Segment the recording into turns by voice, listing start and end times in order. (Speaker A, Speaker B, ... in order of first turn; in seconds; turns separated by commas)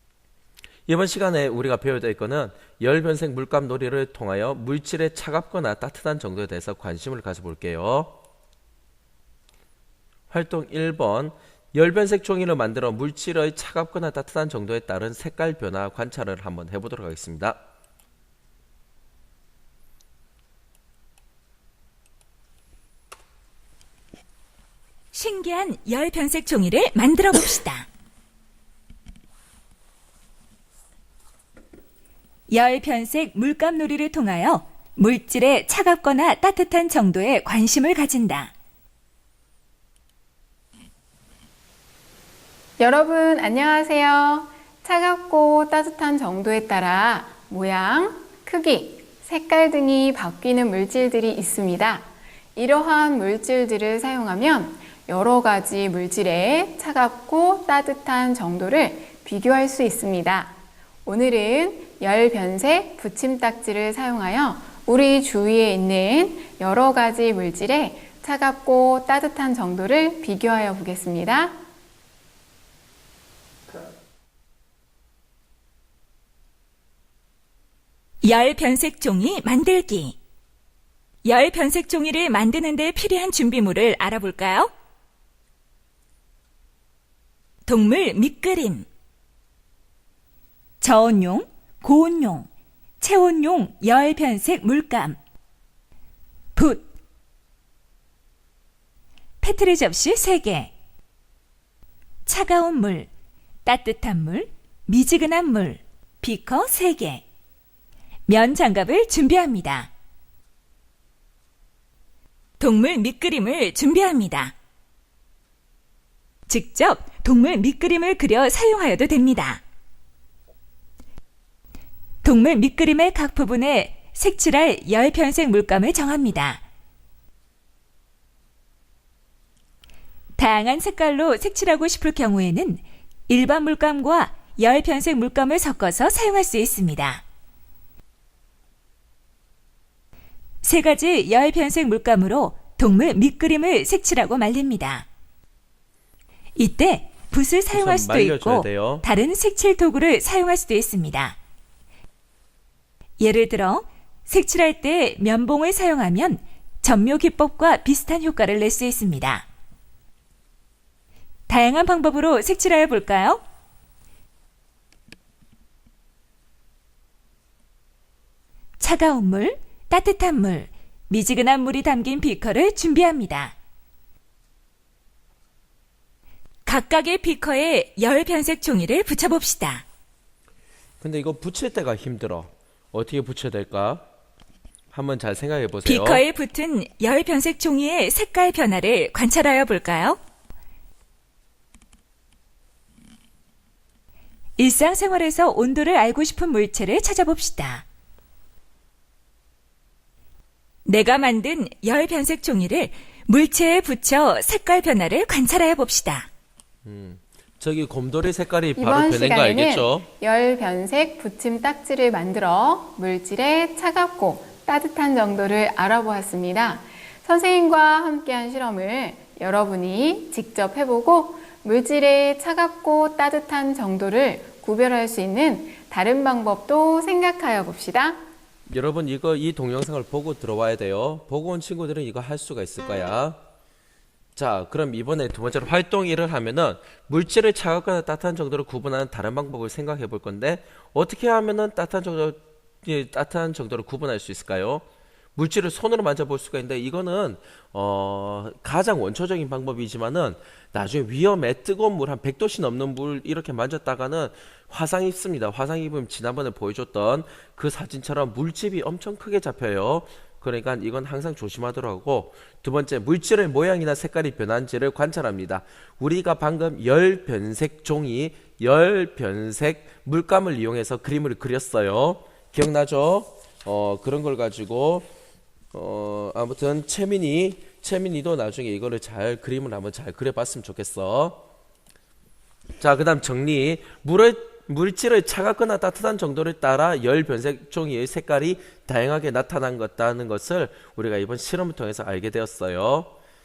Speaker A: 0.9-8.2, Speaker A: 10.3-17.6, Speaker B: 25.1-27.9, Speaker B: 32.5-38.5, Speaker C: 42.8-60.5, Speaker C: 61.0-71.5, Speaker B: 78.2-80.2, Speaker B: 81.2-84.7, Speaker B: 87.7-88.9, Speaker B: 90.8-92.5, Speaker B: 93.0-95.2, Speaker B: 96.5-96.9, Speaker B: 99.4-100.7, Speaker B: 102.2-103.1, Speaker B: 103.6-107.2, Speaker B: 108.3-109.9, Speaker B: 112.6-114.5, Speaker B: 116.5-119.6, Speaker B: 122.2-126.6, Speaker B: 130.4-137.2, Speaker B: 140.6-145.1, Speaker B: 146.6-151.4, Speaker A: 147.7-149.0, Speaker B: 153.2-159.4, Speaker B: 161.5-163.4, Speaker B: 168.8-173.5, Speaker B: 176.6-179.8, Speaker A: 181.0-184.0, Speaker A: 184.9-186.2, Speaker B: 185.8-190.2, Speaker B: 194.6-197.8, Speaker B: 200.8-206.3, Speaker A: 206.8-210.1, Speaker C: 208.8-228.2, Speaker A: 228.7-233.4, Speaker A: 234.3-244.8, Speaker A: 245.3-275.1, Speaker A: 275.7-281.4, Speaker A: 282.8-293.1